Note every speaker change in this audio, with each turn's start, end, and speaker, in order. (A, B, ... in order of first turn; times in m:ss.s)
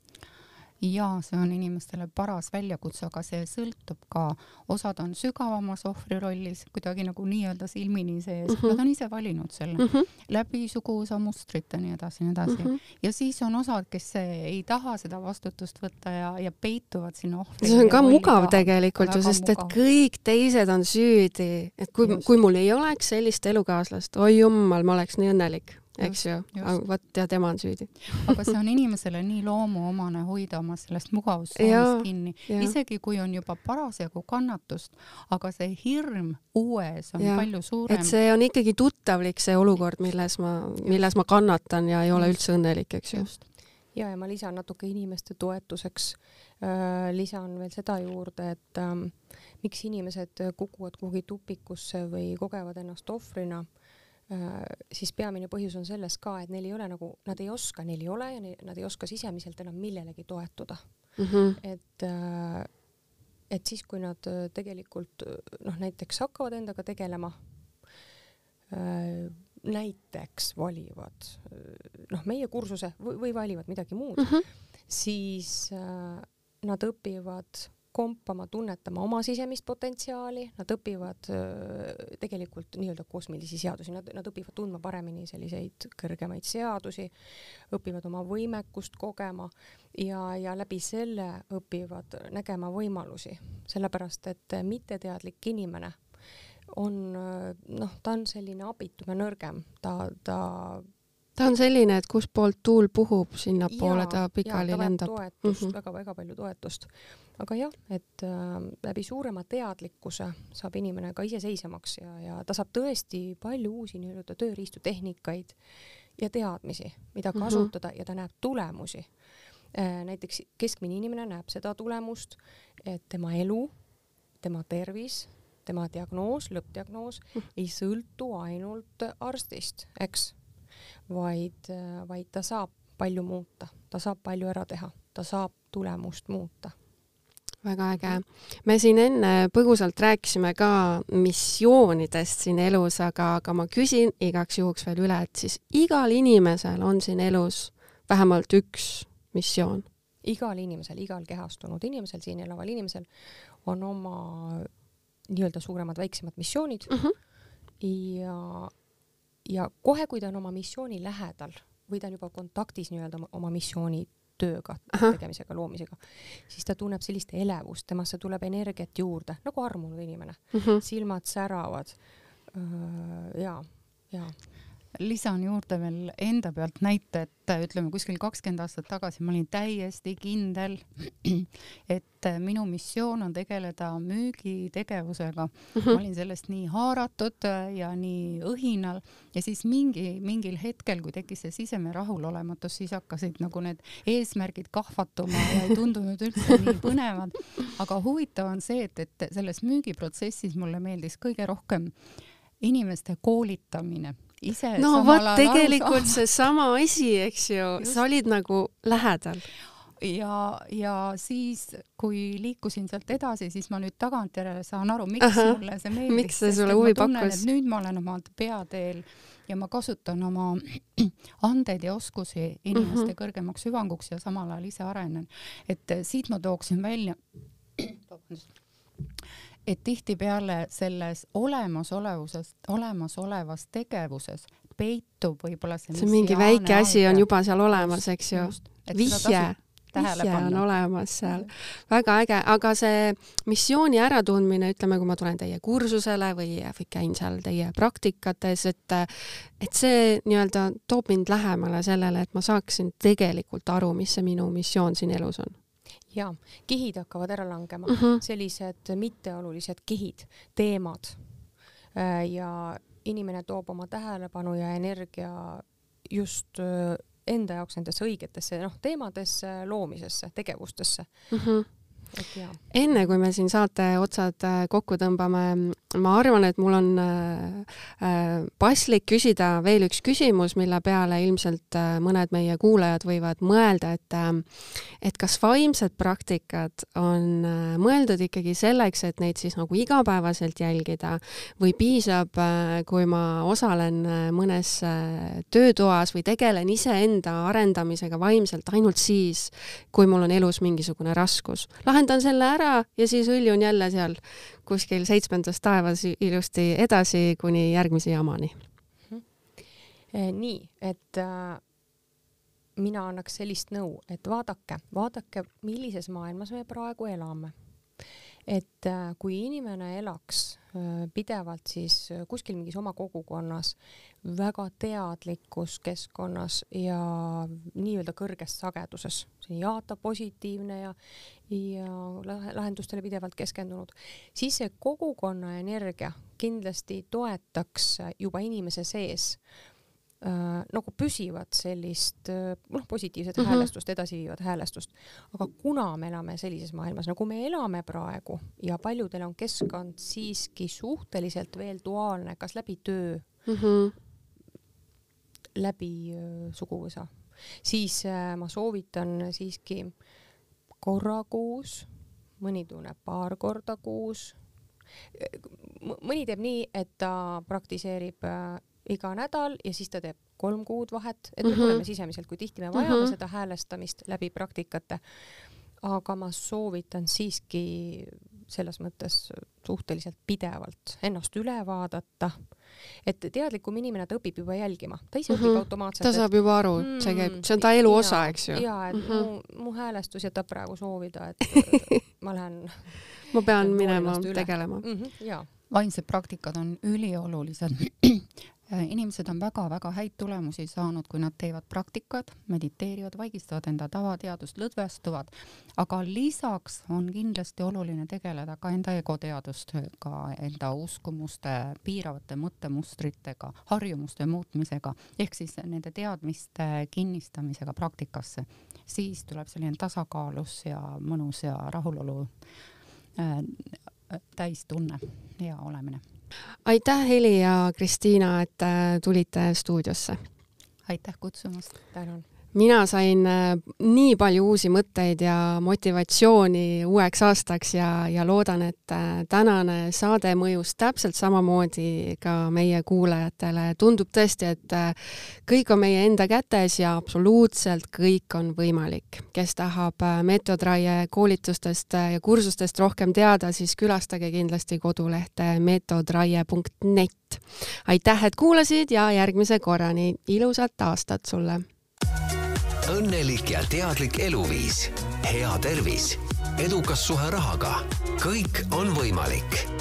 0:00.8-0:19.8 A
0:08.5-0:08.8 B
0:09.8-0:10.1 B
0:12.5-0:12.8 B
0:17.6-0:28.5 B
0:22.0-0:22.3 A
0:26.0-0:26.8 A
0:28.1-0:38.2 A
0:31.6-0:32.7 B
0:37.2-0:43.4 B
0:43.1-0:43.4 A
0:43.9-0:53.7 C
0:54.3-1:02.8 C
1:01.2-1:01.6 B
1:03.5-1:07.4 C
1:08.7-1:27.1 C
1:27.7-1:35.9 C
1:36.7-1:40.9 C
1:41.4-1:45.7 B
1:43.7-1:55.6 C
1:56.2-1:59.1 C
1:57.4-1:57.7 B
1:59.7-2:03.8 C
2:04.4-2:10.4 C
2:11.1-2:16.7 C
2:17.6-2:29.8 B
2:30.2-2:33.1 C
2:33.6-2:34.8 C
2:35.3-2:37.1 C
2:37.8-2:38.8 C
2:39.4-2:54.3 C
2:50.5-2:50.8 B
2:54.9-3:21.9 A
3:22.6-3:26.2 A
3:24.8-3:29.5 B
3:30.0-3:47.2 A
3:35.2-3:37.4 B
3:42.7-3:43.1 B
3:47.8-3:48.5 A
3:49.6-4:01.5 A
3:55.9-4:15.6 B
4:16.1-4:21.3 C
4:17.9-4:18.2 B
4:21.9-4:31.3 C
4:31.3-4:31.7 B
4:32.1-4:33.1 C
4:32.7-5:08.6 B
5:10.1-5:11.6 C
5:12.8-5:17.5 C
5:18.5-5:31.0 C
5:31.5-5:39.4 C
5:40.2-5:53.4 C
5:43.4-5:43.7 B
5:53.4-5:53.9 B
5:55.6-6:00.0 C
6:00.8-6:04.4 C
6:05.1-6:15.0 C
6:11.4-6:11.8 B
6:12.7-6:13.1 B
6:15.8-6:35.5 C
6:25.3-6:29.3 B
6:33.3-6:34.8 B
6:35.7-7:02.3 A
7:03.2-7:06.0 A
7:06.6-7:10.2 B
7:10.8-7:11.8 A
7:11.9-7:12.2 C
7:12.5-7:41.6 B
7:42.9-7:49.7 D